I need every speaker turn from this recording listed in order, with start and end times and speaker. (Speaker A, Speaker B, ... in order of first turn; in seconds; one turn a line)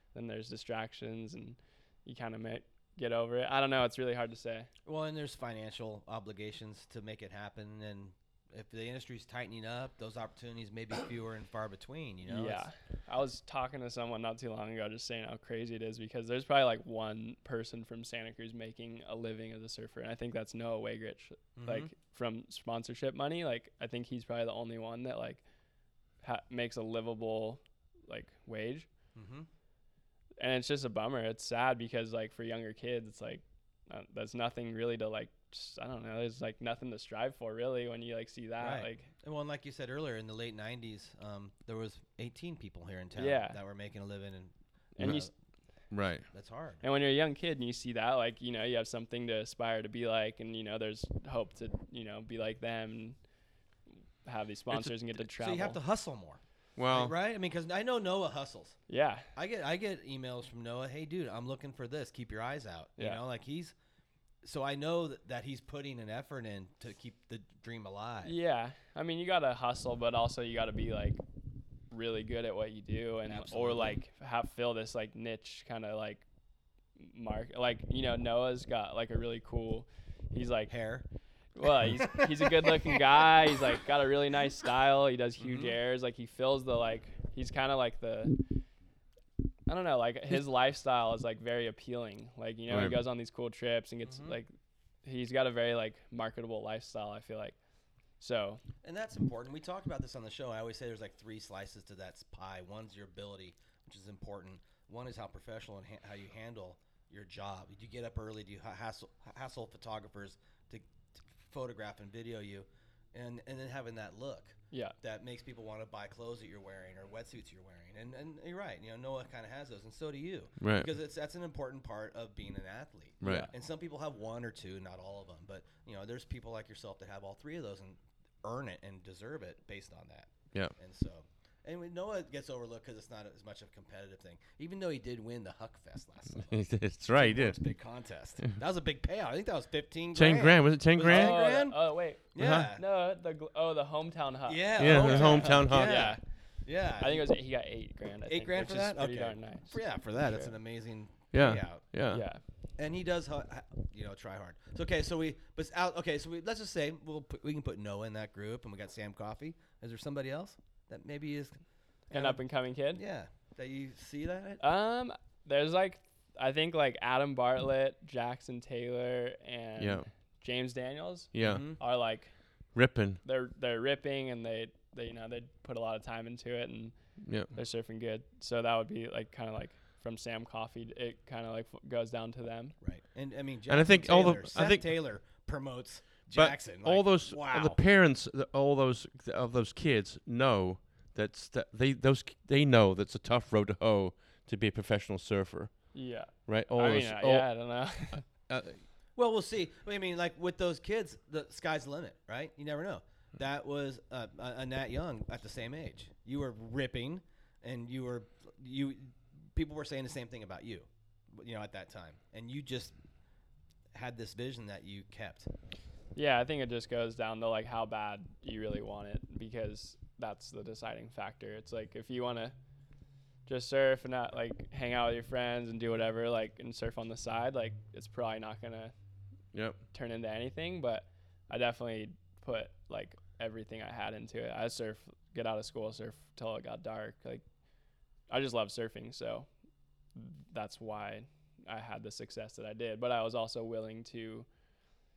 Speaker A: 0.1-4.7
Speaker B: 4.8-12.6
Speaker A: 12.2-25.4
Speaker B: 21.6-21.9
Speaker A: 26.2-28.9
Speaker B: 29.1-29.5
Speaker A: 30.4-39.1
Speaker B: 38.6-45.3
Speaker A: 43.1-43.6
Speaker C: 45.0-45.3
Speaker C: 45.9-46.2
Speaker B: 46.3-46.8
Speaker A: 46.8-53.1
Speaker A: 54.2-55.8
Speaker B: 55.4-58.8
Speaker C: 56.8-57.1
Speaker A: 58.9-59.3
Speaker B: 59.3-63.7
Speaker B: 64.4-68.3
Speaker A: 68.2-71.2
Speaker A: 71.9-76.2
Speaker B: 73.3-74.0
Speaker A: 77.0-80.7
Speaker B: 80.7-81.0
Speaker A: 81.6-88.4
Speaker B: 81.8-83.3
Speaker B: 85.4-85.8
Speaker A: 89.7-94.5
Speaker C: 92.7-93.0
Speaker B: 94.0-94.3
Speaker A: 95.0-97.5
Speaker A: 98.2-98.6
Speaker B: 98.8-110.8
Speaker B: 111.4-141.8
Speaker C: 120.6-120.9
Speaker C: 123.2-123.5
Speaker A: 123.2-123.5
Speaker C: 136.5-137.6
Speaker C: 140.1-141.4
Speaker A: 141.0-146.2
Speaker B: 142.3-142.8
Speaker C: 142.4-142.7
Speaker B: 144.5-147.2
Speaker C: 144.8-146.2
Speaker A: 147.0-150.5
Speaker B: 148.3-151.8
Speaker C: 151.3-152.2
Speaker A: 152.1-152.4
Speaker B: 152.8-161.6
Speaker A: 162.1-163.0
Speaker B: 162.1-162.4
Speaker B: 162.9-164.6
Speaker A: 164.6-172.3
Speaker C: 169.8-170.0
Speaker C: 171.3-171.6
Speaker B: 171.4-171.8
Speaker C: 172.7-173.2
Speaker A: 173.2-176.9
Speaker C: 177.2-177.5
Speaker A: 177.5-182.8
Speaker B: 182.8-187.8
Speaker C: 183.7-184.8
Speaker C: 186.3-195.9
Speaker A: 195.9-198.2
Speaker C: 196.4-197.5
Speaker C: 198.5-198.8
Speaker B: 199.2-212.9
Speaker B: 213.9-215.5
Speaker A: 216.1-222.5
Speaker A: 223.4-228.9
Speaker C: 229.5-229.8
Speaker A: 229.9-237.4
Speaker A: 238.3-239.5
Speaker A: 240.1-244.4